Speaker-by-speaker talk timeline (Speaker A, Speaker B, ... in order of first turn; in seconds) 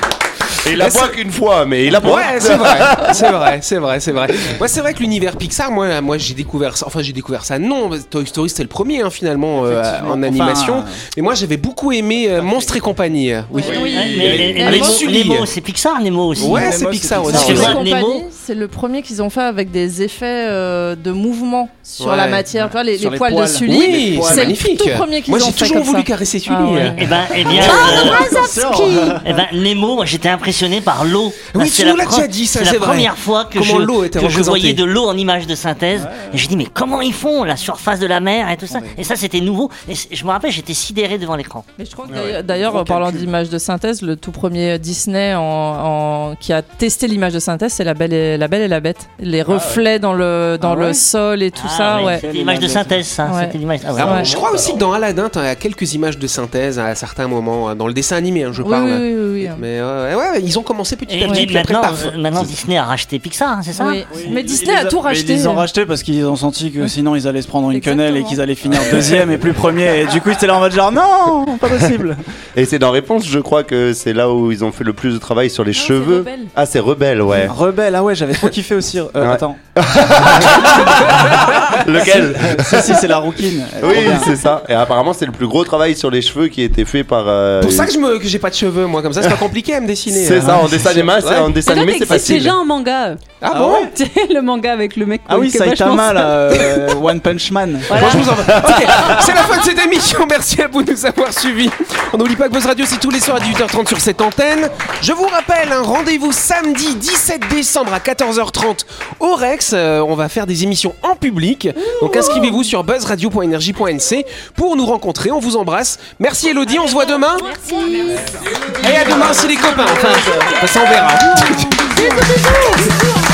Speaker A: 0.6-3.5, 42.1-42.4, 49.5-49.8, 54.0-54.8, 72.6-77.5, 79.2-83.1, 83.8-87.9, 90.1-92.6
Speaker B: 0.7-1.2, 1.9-15.5, 16.4-17.8, 22.0-22.4, 23.6-27.0, 31.5-34.8, 54.0-62.3, 87.6-91.5, 93.4-93.9, 97.9-117.5, 118.8-121.8
Speaker C: 9.6-11.0, 16.4-17.8, 22.5-24.6, 27.3-29.5, 36.0-36.4, 38.7-39.0, 42.5-43.3, 50.6-51.0, 51.9-53.0, 64.1-72.2, 77.4-79.7, 80.2-84.5, 90.4-90.9, 93.5-93.9, 95.3-99.1, 118.7-120.6
Speaker D: 13.5-15.0, 17.3-29.2, 41.8-52.2, 53.3-54.3, 58.6-59.6, 63.8-65.7, 67.7-68.4
Speaker E: 13.9-16.7, 17.3-18.2, 27.0-28.3, 29.2-41.6, 51.6-54.2, 61.1-64.2
Speaker F: 75.7-76.5, 91.6-93.3, 93.9-96.5, 97.9-98.3, 112.1-112.6, 116.6-118.8, 121.8-122.9